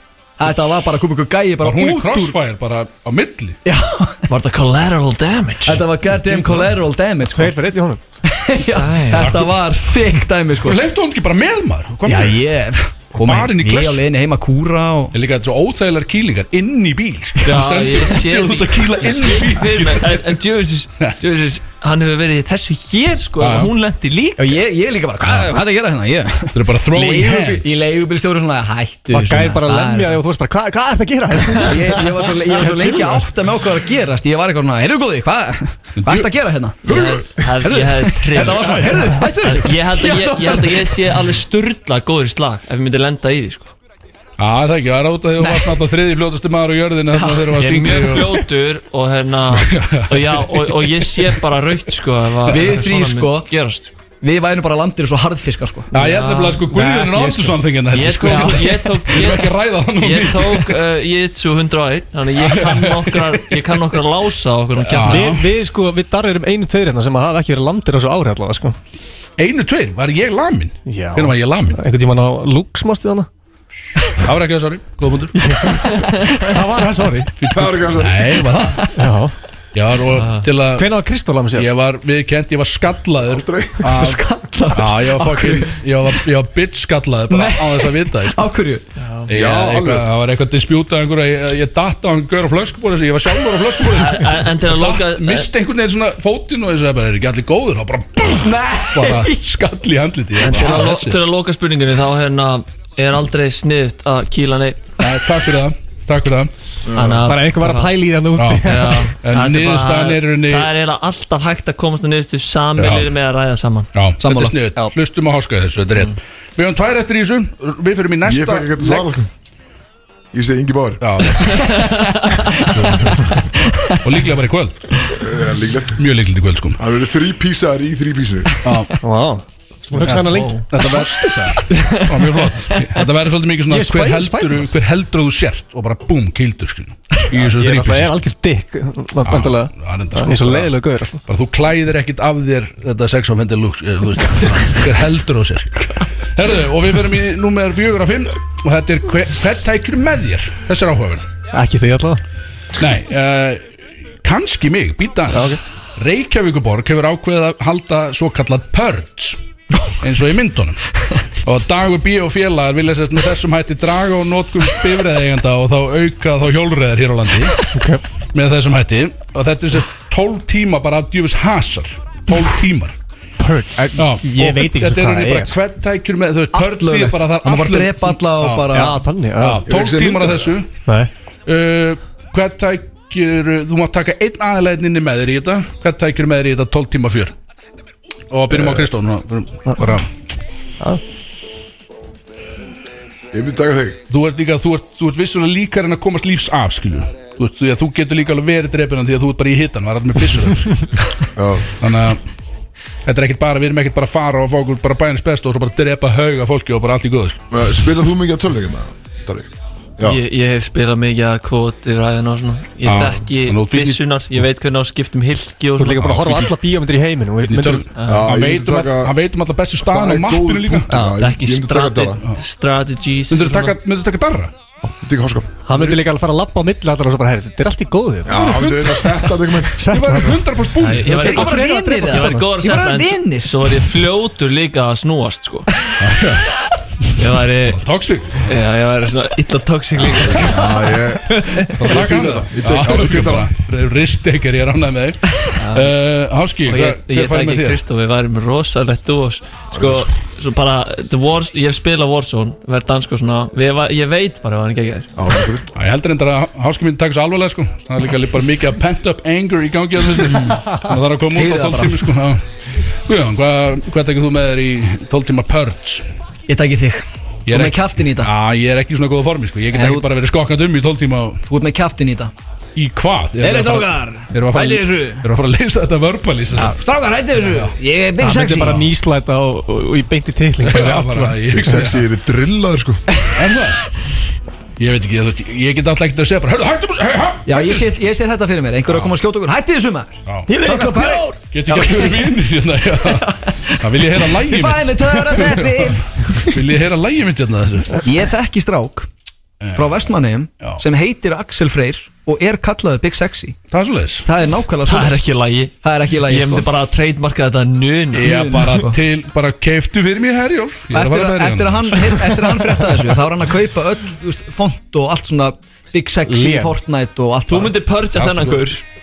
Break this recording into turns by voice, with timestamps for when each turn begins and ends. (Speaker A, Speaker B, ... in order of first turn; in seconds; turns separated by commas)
Speaker A: 0.4-2.4, Speaker B: 1.6-3.6, Speaker A: 3.6-4.2, Speaker C: 4.3-5.8, Speaker A: 5.6-7.6, Speaker D: 7.2-8.0, Speaker A: 8.2-10.8, Speaker C: 8.7-9.4, Speaker B: 9.1-9.6, Speaker B: 10.6-12.4, Speaker A: 12.0-15.1, Speaker B: 13.2-14.1, Speaker B: 15.1-20.4, Speaker C: 17.4-24.6, Speaker B: 23.4-23.7, Speaker A: 24.4-30.2, Speaker B: 25.2-25.5, Speaker B: 26.5-27.9, Speaker D: 29.1-33.3, Speaker A: 31.7-41.0, Speaker B: 36.0-36.3, Speaker B: 36.8-37.2, Speaker C: 36.8-43.7, Speaker D: 38.4-39.3, Speaker B: 44.4-48.3, Speaker A: 47.1-47.6, Speaker C: 47.5-53.9, Speaker B: 49.5-51.0, Speaker A: 52.5-53.5, Speaker A: 54.2-55.9, Speaker C: 55.9-56.7, Speaker B: 55.9-60.7, Speaker D: 56.7-57.6, Speaker C: 57.9-65.3, Speaker A: 58.3-58.8, Speaker B: 62.4-63.5, Speaker B: 64.9-65.5, Speaker D: 64.9-68.8, Speaker B: 69.4-71.8, Speaker D: 70.8-73.3, Speaker B: 74.1-75.3, Speaker D: 75.3-77.3, Speaker B: 77.4-78.9, Speaker E: 77.5-78.4, Speaker D: 79.0-79.3, Speaker B: 79.7-80.9, Speaker C: 80.1-80.4, Speaker D: 80.7-81.7, Speaker B: 81.5-88.4, Speaker E: 83.3-83.8, Speaker A: 83.8-85.8, Speaker A: 87.3-88.8, Speaker C: 89.0-89.3, Speaker B: 89.3-101.2, Speaker E: 89.3-90.1, Speaker C: 93.8-95.5, Speaker A: 98.4-99.4, Speaker C: 100.4-104.9, Speaker B: 105.0-106.5, Speaker E: 106.8-107.2, Speaker C: 106.9-107.9, Speaker D: 107.2-109.1, Speaker B: 108.3-110.7, Speaker C: 108.6-113.9, Speaker B: 112.8-113.1, Speaker B: 113.9-119.1, Speaker A: 114.2-114.6, Speaker E: 118.2-119.3, Speaker E: 120.3-121.0, Speaker B: 121.0-121.6, Speaker C: 121.7-122.7, Speaker A: 121.7-122.7, Speaker B: 122.7-123.1, Speaker A: 123.5-124.0, Speaker B: 124.0-124.8, Speaker E: 125.2-126.0, Speaker B: 126.0-126.8, Speaker E: 126.8-128.5, Speaker B: 128.6-128.9, Speaker D: 129.0-131.0, Speaker B: 130.0-138.2, Speaker C: 130.2-130.7, Speaker C: 131.7-132.8, Speaker D: 133.7-134.7, Speaker D: 137.3-141.2, Speaker B: 139.2-140.7, Speaker B: 141.2-151.3, Speaker D: 151.5-152.2, Speaker B: 152.8-153.7, Speaker B: 154.2-159.4, Speaker D: 155.3-155.6, Speaker B: 160.0-160.8, Speaker B: 161.4-167.6, Speaker D: 167.7-168.0, Speaker B: 168.3-172.9, Speaker D: 173.4-175.6, Speaker B: 173.9-178.7, Speaker A: 176.5-179.0, Speaker D: 178.7-179.7, Speaker B: 179.4-180.7, Speaker E: 179.6-180.5, Speaker D: 180.8-181.1, Speaker B: 181.4-187.3, Speaker B: 188.3-190.1, Speaker D: 188.5-188.8, Speaker E: 193.3-194.0, Speaker B: 194.1-200.9, Speaker E: 201.3-201.7, Speaker B: 201.8-202.2, Speaker B: 203.0-207.4, Speaker E: 207.5-210.2, Speaker C: 210.0-216.5, Speaker B: 212.8-214.0, Speaker D: 215.8-217.9, Speaker B: 215.9-216.5, Speaker B: 217.4-221.0, Speaker C: 217.9-218.3, Speaker E: 218.0-219.1, Speaker E: 219.8-222.2, Speaker D: 220.9-221.2, Speaker C: 221.1-223.8, Speaker B: 223.3-224.5, Speaker E: 225.0-226.0, Speaker D: 225.6-230.7, Speaker E: 228.2-229.8, Speaker B: 229.9-231.4, Speaker C: 230.8-235.7, Speaker A: 231.1-233.8, Speaker D: 231.2-232.5, Speaker B: 236.0-236.5, Speaker C: 237.2-237.8, Speaker B: 237.6-238.5, Speaker C: 238.4-241.7, Speaker E: 240.0-243.5, Speaker B: 241.7-247.8, Speaker C: 245.6-245.9, Speaker C: 246.6-255.1, Speaker E: 249.7-250.1, Speaker E: 255.2-255.6, Speaker B: 255.7-262.4, Speaker A: 260.3-260.6, Speaker A: 261.3-262.0, Speaker B: 262.9-266.0, Speaker A: 266.5-268.3, Speaker B: 267.5-271.4, Speaker A: 269.7-270.1, Speaker A: 271.5-272.3, Speaker B: 272.7-276.8, Speaker A: 273.4-275.2, Speaker A: 276.6-278.9, Speaker B: 277.4-277.7, Speaker D: 278.2-281.5, Speaker B: 278.3-278.9, Speaker B: 280.6-282.1, Speaker E: 281.5-283.0, Speaker B: 283.3-283.8, Speaker B: 284.8-287.9, Speaker A: 287.5-292.4, Speaker B: 288.9-289.1, Speaker D: 290.5-291.4, Speaker B: 291.5-298.0, Speaker A: 293.0-296.6, Speaker A: 298.0-299.1, Speaker B: 299.6-300.1, Speaker A: 299.7-303.6, Speaker B: 303.7-304.3, Speaker A: 304.2-305.2, Speaker C: 304.8-308.3, Speaker A: 305.8-306.7, Speaker B: 308.1-312.4, Speaker A: 308.2-308.9, Speaker A: 310.9-317.8, Speaker D: 316.2-316.8, Speaker C: 317.5-318.8, Speaker B: 318.1-318.6